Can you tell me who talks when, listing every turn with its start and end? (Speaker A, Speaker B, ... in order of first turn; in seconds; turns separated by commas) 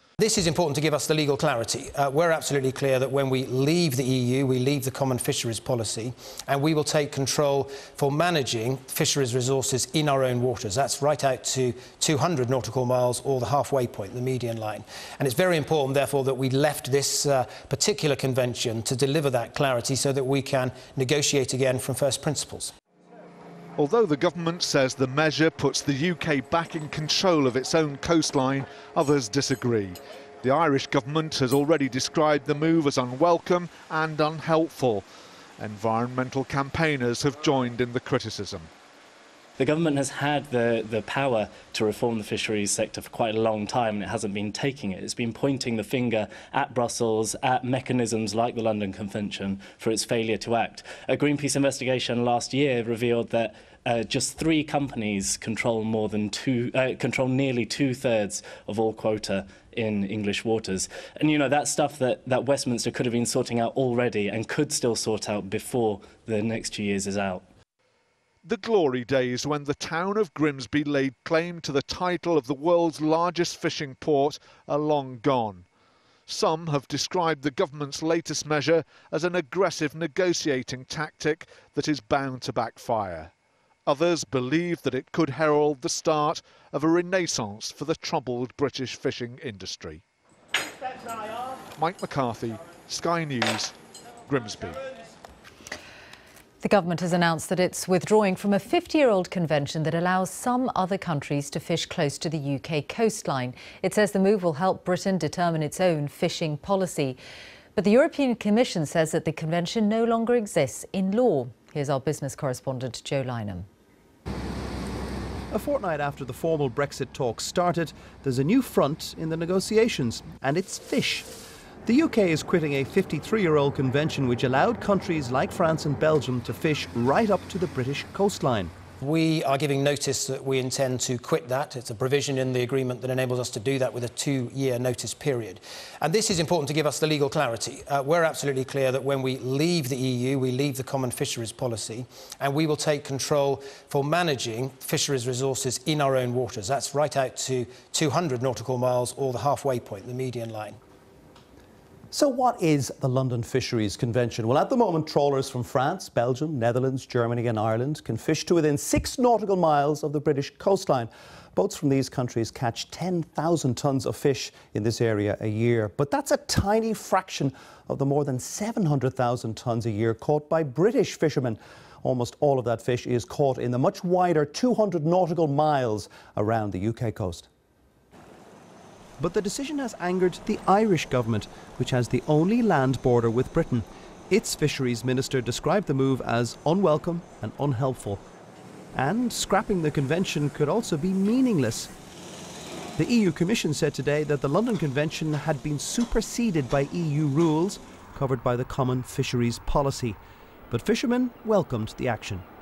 Speaker A: 0.2-22.7, Speaker B: 23.8-35.0, Speaker B: 35.6-38.7, Speaker C: 39.6-67.4, Speaker B: 68.4-75.7, Speaker B: 76.3-83.3, Speaker B: 83.8-90.0, Speaker B: 91.8-93.7, Speaker B: 94.3-94.8, Speaker D: 96.6-107.2, Speaker D: 107.7-113.7, Speaker E: 115.5-121.3, Speaker E: 121.8-128.7, Speaker A: 129.0-150.8, Speaker E: 152.1-177.5, Speaker E: 179.2-188.2, Speaker E: 188.9-191.9, Speaker E: 193.0-200.2, Speaker E: 200.7-202.4